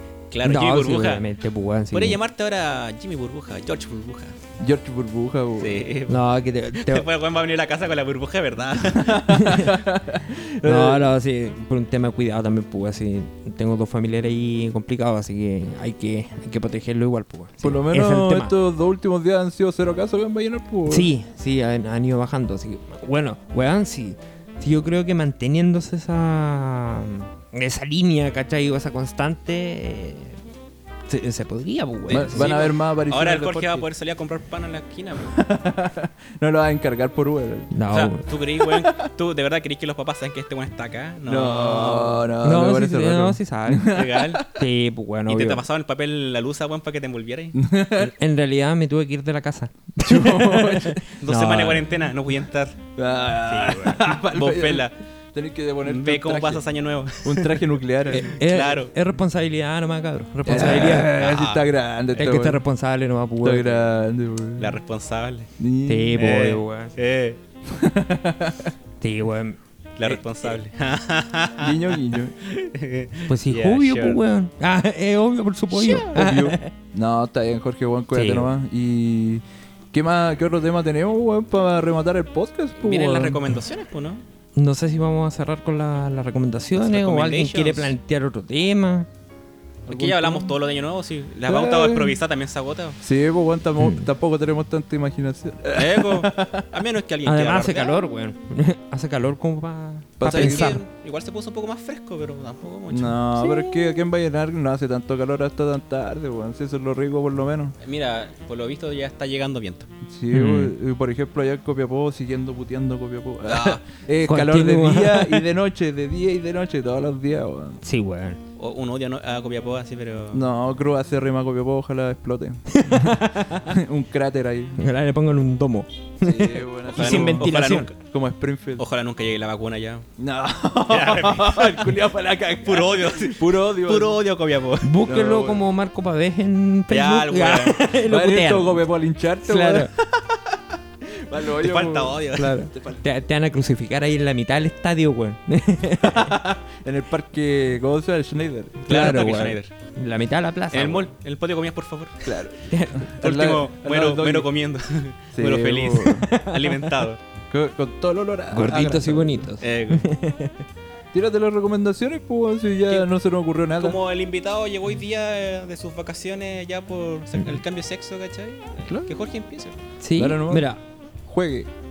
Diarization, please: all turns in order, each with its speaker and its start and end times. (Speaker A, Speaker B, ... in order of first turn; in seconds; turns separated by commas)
Speaker A: 0.3-1.2, Speaker B: 0.4-2.2, Speaker A: 1.9-4.3, Speaker C: 4.6-5.8, Speaker A: 5.6-9.2, Speaker B: 6.1-7.0, Speaker C: 8.9-11.1, Speaker B: 9.3-9.8, Speaker B: 10.6-18.5, Speaker C: 17.6-21.1, Speaker B: 20.9-30.4, Speaker B: 31.1-32.5, Speaker A: 32.1-35.4, Speaker C: 32.1-33.9, Speaker C: 35.2-37.7, Speaker B: 37.7-38.2, Speaker A: 37.9-42.3, Speaker C: 38.6-39.0, Speaker C: 41.2-44.6, Speaker B: 42.4-45.6, Speaker A: 43.9-44.4, Speaker A: 45.3-47.6, Speaker C: 47.5-48.1, Speaker B: 48.0-52.0, Speaker C: 50.0-51.0, Speaker A: 51.2-52.8, Speaker C: 53.0-56.6, Speaker B: 53.5-54.0, Speaker A: 53.7-54.9, Speaker A: 55.8-58.9, Speaker C: 57.2-58.3, Speaker B: 58.1-61.2, Speaker C: 60.4-62.6, Speaker A: 60.5-62.3, Speaker B: 62.1-63.8, Speaker C: 63.4-64.8, Speaker A: 64.6-65.5, Speaker C: 65.6-66.3, Speaker B: 65.9-66.9, Speaker A: 66.2-67.4, Speaker C: 67.7-68.7, Speaker B: 69.0-69.6, Speaker A: 70.0-74.2, Speaker C: 71.6-72.3, Speaker B: 73.3-76.7, Speaker A: 75.7-76.3, Speaker C: 76.1-83.4, Speaker B: 78.1-78.5, Speaker A: 82.8-84.2, Speaker B: 84.5-89.1, Speaker A: 86.8-87.9, Speaker A: 89.9-93.0, Speaker B: 89.9-90.5, Speaker C: 91.5-92.2, Speaker C: 93.0-96.7, Speaker B: 93.8-94.1, Speaker A: 95.7-98.0, Speaker B: 97.2-100.8, Speaker C: 100.2-100.8, Speaker A: 100.2-103.8, Speaker C: 102.9-107.7, Speaker A: 107.8-109.9, Speaker C: 110.1-117.8, Speaker B: 110.3-110.7, Speaker A: 113.5-113.8, Speaker B: 114.2-115.4, Speaker B: 117.8-118.4, Speaker A: 118.6-120.4, Speaker C: 120.3-124.8, Speaker B: 122.7-123.8, Speaker B: 124.8-127.9, Speaker C: 126.2-128.8, Speaker A: 126.9-128.0, Speaker A: 128.8-130.0, Speaker C: 130.2-134.2, Speaker A: 130.9-131.9, Speaker A: 132.6-134.9, Speaker B: 134.8-138.8, Speaker C: 135.1-135.6, Speaker A: 136.9-137.9, Speaker C: 138.1-140.1, Speaker B: 139.4-139.9, Speaker C: 141.1-143.0, Speaker A: 141.5-142.5, Speaker B: 142.3-146.3, Speaker C: 146.0-149.1, Speaker A: 148.9-149.7, Speaker B: 148.9-151.1, Speaker A: 150.7-152.4, Speaker C: 152.2-154.5, Speaker B: 152.7-153.1, Speaker A: 153.2-157.2, Speaker C: 155.3-156.3, Speaker B: 156.2-157.0, Speaker C: 157.5-159.5, Speaker B: 158.5-160.6, Speaker A: 159.6-160.1, Speaker C: 161.1-164.0, Speaker A: 163.8-169.7, Speaker B: 170.0-170.8, Speaker C: 170.2-170.7, Speaker C: 171.2-171.7